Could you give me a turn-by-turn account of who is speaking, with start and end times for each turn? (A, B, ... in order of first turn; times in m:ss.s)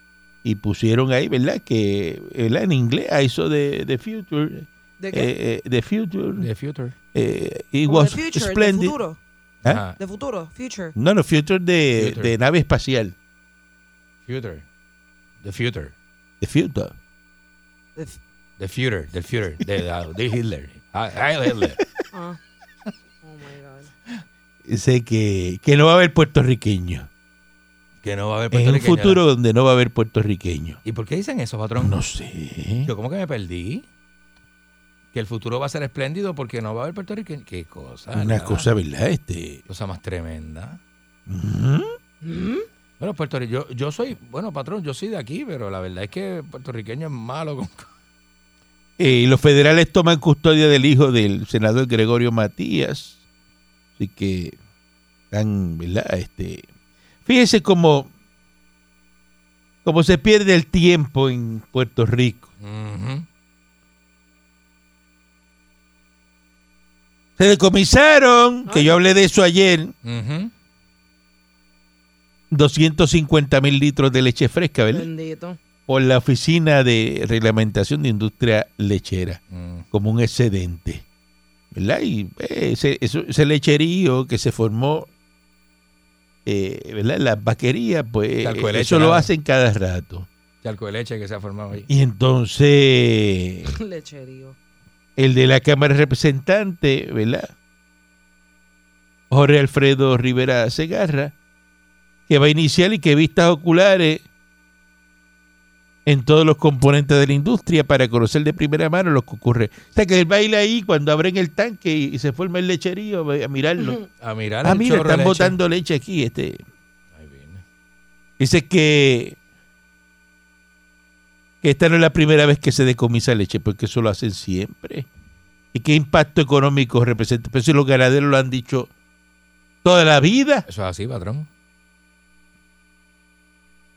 0:00.4-0:06.5 A
0:05.0-0:05.3 B
0:06.4-0:06.9 C
0:07.1-0:09.0 A
0:07.9-0:09.2 B
0:09.6-0:10.0 C
0:10.0-0:11.0 B
0:11.0-0:13.2 A
0:12.0-0:12.3 C
0:14.3-0:14.6 C
0:15.4-0:15.9 C
0:16.4-0:17.0 A
0:18.6-0:21.8 C
0:22.1-0:22.4 B
0:23.2-0:23.9 B
0:24.7-0:27.1 A
0:28.0-0:29.2 C
0:28.5-0:30.8 A
0:30.8-0:32.0 C
0:31.8-0:32.9 A
0:32.9-0:33.9 C
0:35.1-0:38.7 C
0:38.1-0:39.6 A
0:39.7-0:40.8 C
0:41.3-0:42.0 A
0:42.2-0:42.7 B
0:43.0-0:47.9 C
0:49.0-0:53.2 A
0:54.0-0:54.6 A
0:55.3-0:56.6 A
0:57.3-0:58.1 A
0:59.8-1:02.5 A
1:02.6-1:03.2 C
1:07.4-1:09.9 A
1:08.7-1:08.9 B
1:10.0-1:10.5 C
1:12.5-1:15.1 A
1:14.9-1:15.6 B
1:15.9-1:19.4 A
1:19.5-1:19.8 C
1:19.9-1:21.0 A
1:21.7-1:25.1 A
1:26.5-1:30.3 A
1:28.4-1:29.3 C
1:30.6-1:31.9 C
1:31.9-1:33.7 A
1:33.8-1:34.6 B
1:35.2-1:37.5 A
1:39.3-1:41.3 A
1:42.3-1:44.2 A
1:46.1-1:54.0 A
1:54.2-1:55.6 C
1:54.6-1:56.6 A
1:57.2-1:57.6 C
1:58.4-1:59.4 A
2:01.6-2:05.1 A
2:05.7-2:08.9 A
2:09.8-2:10.7 A
2:10.7-2:11.5 C